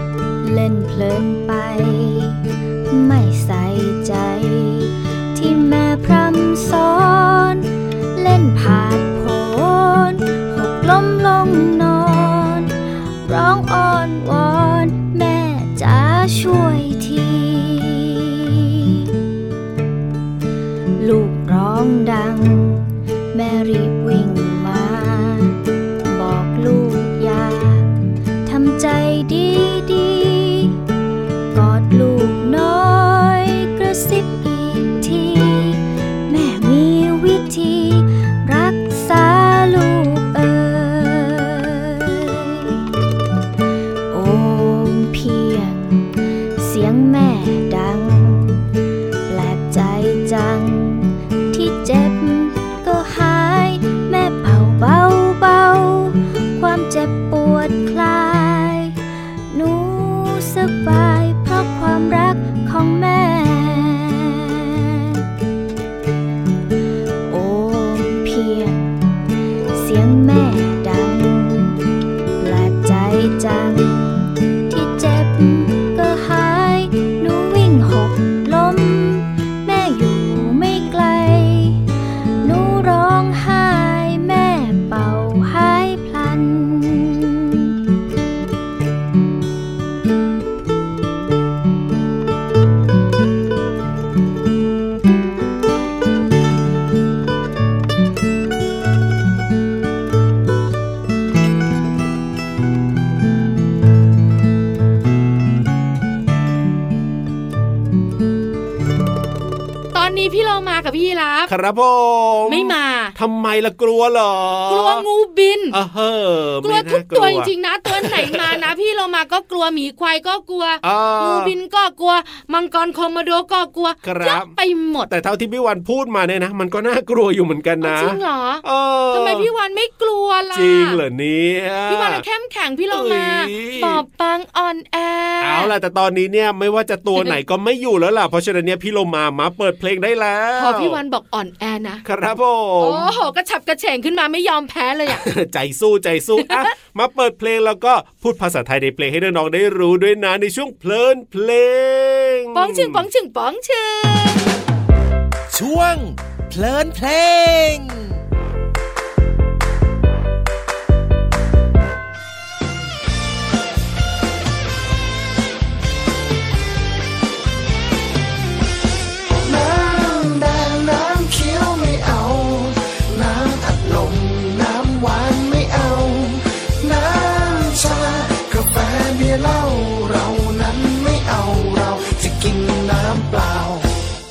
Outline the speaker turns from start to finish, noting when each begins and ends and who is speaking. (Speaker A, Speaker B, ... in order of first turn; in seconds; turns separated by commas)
Speaker A: 0.4-19.1, Speaker A: 21.0-27.9, Speaker A: 28.5-30.8, Speaker A: 31.5-42.8, Speaker A: 44.1-48.7, Speaker A: 49.3-59.0, Speaker A: 59.5-65.2, Speaker A: 67.3-69.0, Speaker A: 69.7-71.8, Speaker A: 72.4-81.8, Speaker A: 82.4-87.7, Speaker B: 109.9-111.5, Speaker C: 111.5-115.1, Speaker B: 112.5-113.2, Speaker B: 114.7-115.8, Speaker C: 115.7-118.7, Speaker B: 116.6-125.1, Speaker C: 120.8-121.5, Speaker C: 124.0-124.5, Speaker C: 125.1-129.5, Speaker B: 127.8-131.0, Speaker C: 130.5-132.2, Speaker B: 131.9-135.7, Speaker C: 132.9-134.0, Speaker C: 135.4-141.0, Speaker B: 140.6-142.0, Speaker C: 142.1-143.1, Speaker B: 142.8-145.2, Speaker C: 145.1-153.1, Speaker B: 146.4-146.7, Speaker B: 152.6-154.5, Speaker D: 155.5-158.2, Speaker E: 169.3-183.9